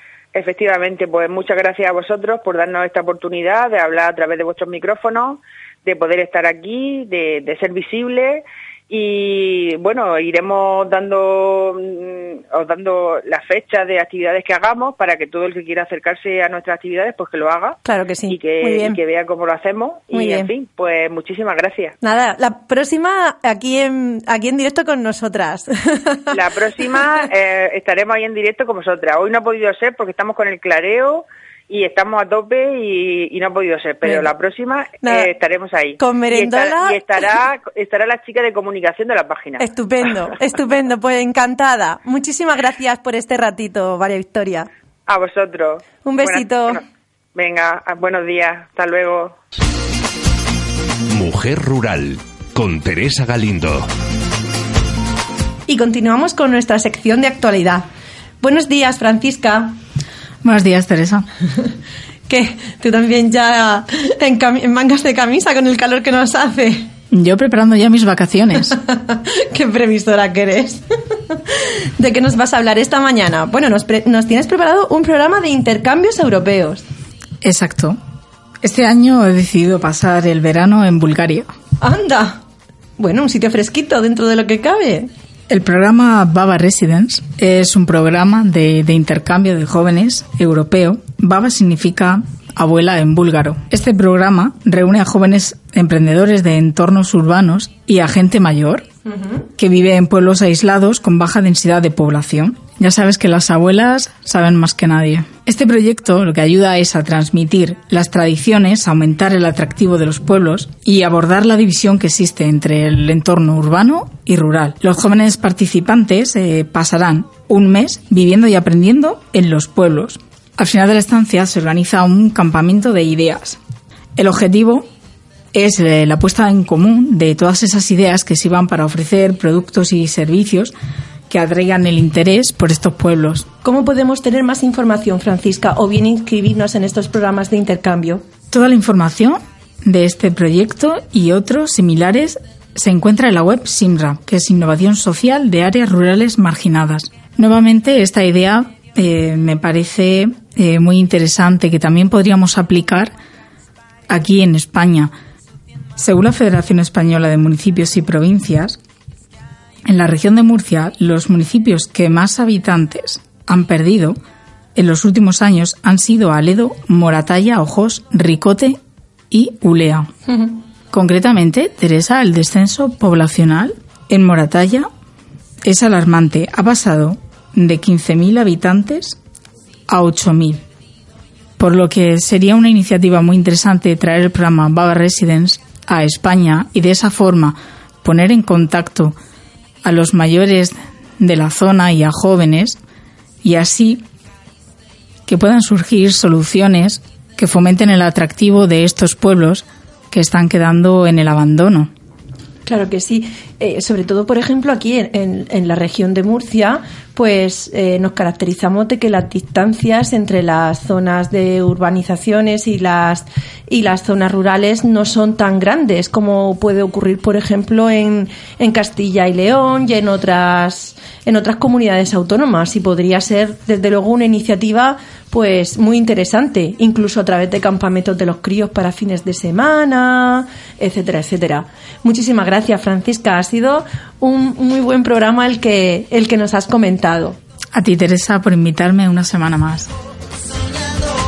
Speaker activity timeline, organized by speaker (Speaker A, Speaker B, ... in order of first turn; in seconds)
Speaker A: 0.3-21.9, 26.3-40.1, 45.1-46.8, 47.3-49.4
Speaker B: 17.8-19.0, 20.1-20.5, 22.0-26.4, 35.0-35.3, 36.0-37.2, 39.6-44.7, 46.0-46.8, 55.7-57.8, 58.4-59.7, 62.3-66.9, 68.7-76.8, 81.8-82.4, 83.0-85.1, 133.6-138.2, 202.7-237.4
Speaker C: 51.1-53.9
Speaker D: 60.4-61.2, 67.1-68.8, 77.4-78.0, 78.6-81.5, 85.5-98.9, 99.5-123.6, 124.2-124.9, 125.5-130.7, 131.3-133.5, 138.5-153.1, 154.1-155.1, 156.0-158.8, 159.8-164.2, 164.7-168.8, 169.3-170.1, 170.9-174.9, 175.6-179.2, 179.9-180.6, 181.6-189.2, 189.8-192.8, 193.4-194.1, 195.2-201.9, 237.7-239.9